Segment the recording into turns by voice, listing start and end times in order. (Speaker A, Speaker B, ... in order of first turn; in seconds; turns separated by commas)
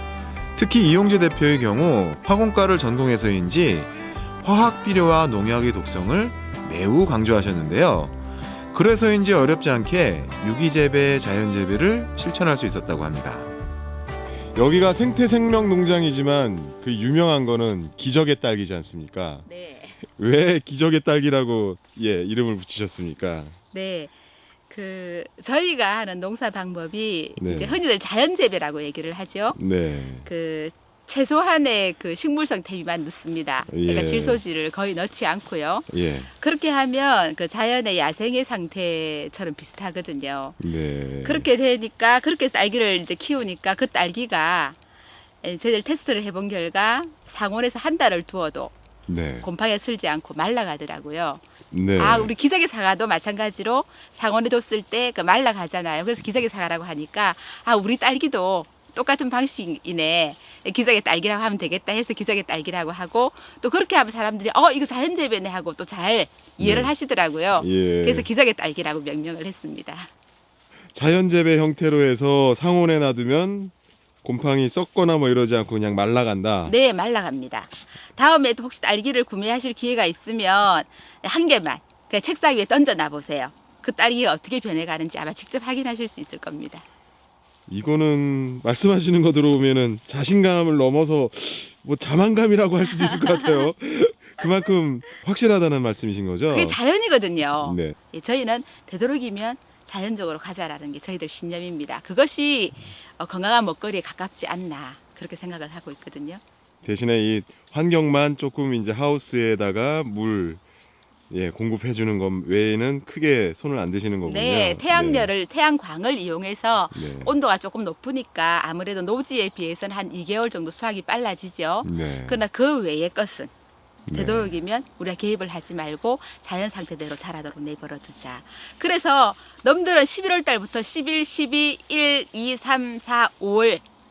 Speaker A: 0.6-8.2, Speaker A: 8.7-13.5, Speaker B: 14.6-19.4, Speaker C: 19.5-20.0, Speaker B: 20.1-23.6, Speaker C: 23.7-24.1, Speaker C: 24.7-29.6, Speaker B: 27.4-27.8, Speaker B: 29.5-30.3, Speaker C: 30.2-40.6, Speaker B: 33.7-34.4, Speaker B: 35.9-36.3, Speaker B: 40.6-41.5, Speaker C: 41.2-44.8, Speaker C: 45.4-48.7, Speaker B: 49.1-49.5, Speaker C: 49.4-51.4, Speaker B: 51.7-52.3, Speaker C: 52.0-70.1, Speaker B: 66.6-66.9, Speaker B: 67.6-68.3, Speaker B: 70.9-73.7, Speaker B: 74.2-76.7, Speaker C: 76.7-86.8, Speaker B: 87.7-96.8, Speaker C: 93.2-93.6, Speaker C: 96.5-106.4, Speaker B: 97.6-98.0, Speaker B: 106.8-110.6, Speaker B: 111.3-115.3, Speaker C: 114.2-123.5, Speaker B: 116.9-117.3, Speaker B: 121.8-122.5, Speaker B: 124.1-124.5, Speaker C: 124.1-133.8